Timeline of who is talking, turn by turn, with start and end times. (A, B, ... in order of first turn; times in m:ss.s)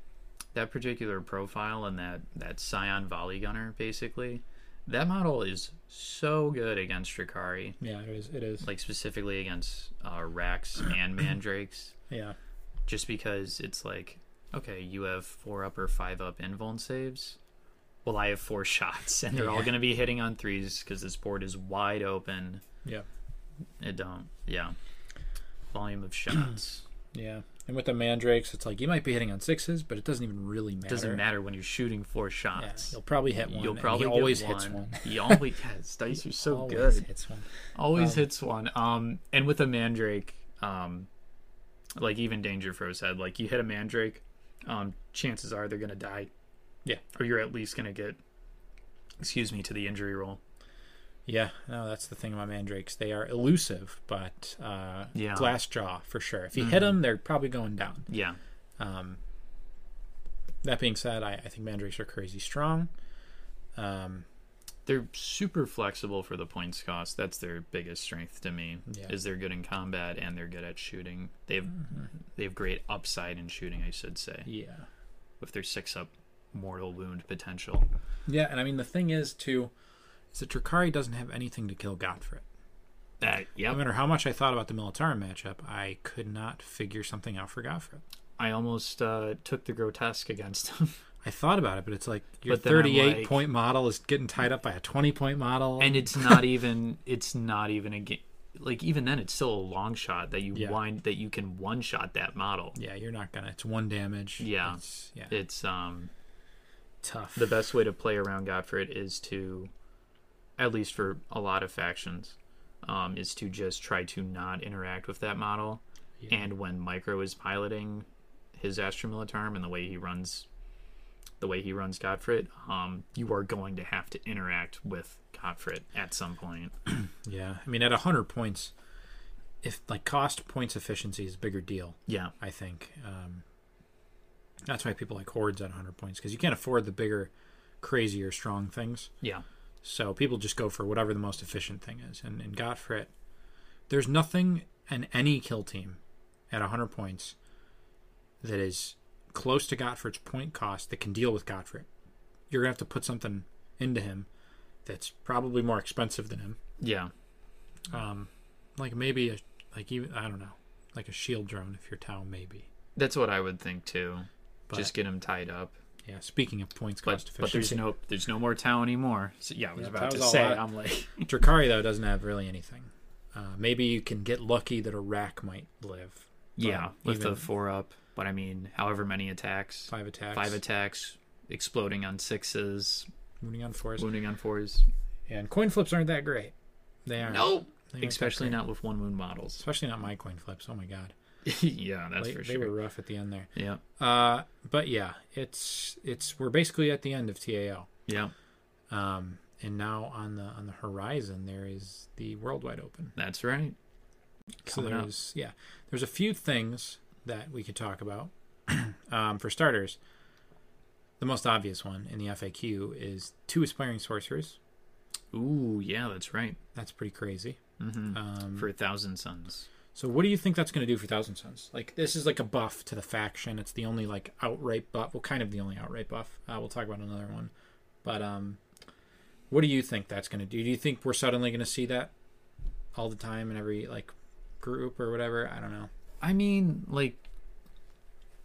0:00.5-0:07.8 A
0:07.8-0:08.7 B
0:08.6-0:11.9 A
0:12.1-0:12.4 B
0:12.9-0:17.4 A
0:18.0-0:22.6 A
0:19.3-0:19.7 B
0:23.8-0:24.8 A
0:25.7-0:26.8 A
0:27.1-0:31.2 B
0:30.9-0:37.1 A
0:32.6-0:35.4 B
0:36.4-0:38.2 B
0:37.7-0:41.1 A
0:42.0-0:46.3 A
0:47.1-0:48.2 A
0:49.2-0:50.4 A
0:51.2-0:58.1 B
0:55.1-0:55.5 A
0:56.6-0:56.9 A
0:58.1-0:58.4 A
0:58.8-0:59.2 B
1:00.6-1:02.9 B
1:03.7-1:04.2 B
1:04.8-1:14.5 A
1:08.9-1:09.1 B
1:14.4-1:14.9 B
1:15.4-1:17.8 A
1:18.3-1:19.7 B
1:20.3-1:22.4 B
1:23.2-1:23.8 A
1:23.7-1:28.0 B
1:28.4-1:31.0 A
1:31.2-1:36.5 B
1:32.5-1:33.4 A
1:35.8-1:42.8 A
1:40.5-1:40.8 B
1:42.8-1:45.4 B
1:44.4-1:46.1 A
1:47.0-1:47.6 B
1:47.3-1:49.7 A
1:50.6-2:00.5 A
1:56.2-1:56.5 B
2:01.4-2:06.7 A
2:06.9-2:08.7 B
2:09.6-2:13.4 B
2:12.1-2:12.3 A
2:14.6-2:19.1 B
2:19.8-2:23.1 B
2:23.9-2:27.4 B
2:28.4-2:31.9 B
2:32.5-2:34.3 B
2:34.8-2:36.6 B
2:36.8-2:37.1 A
2:37.9-2:42.7 B
2:43.0-2:45.8 A
2:46.0-2:47.8 B
2:47.0-2:51.3 A
2:49.8-2:57.4 B
2:56.6-3:03.1 A
2:59.9-3:00.6 B
3:03.4-3:04.1 B
3:04.0-3:04.9 A
3:05.3-3:06.5 B
3:07.0-3:08.6 B
3:07.3-3:09.6 A
3:09.6-3:11.1 B
3:11.4-3:12.7 A
3:12.2-3:17.9 B
3:13.5-3:13.8 A
3:18.1-3:18.3 A
3:18.9-3:23.1 B
3:23.2-3:23.8 A
3:24.6-3:30.0 B
3:24.6-3:25.1 A
3:31.2-3:34.6 B
3:35.3-3:36.6 A
3:36.7-3:37.6 B
3:37.8-3:39.7 A
3:38.1-3:38.7 B
3:39.9-3:47.5 B
3:48.0-3:48.6 B
3:49.5-3:52.1 B
3:52.9-3:55.9 B
3:56.2-3:57.2 A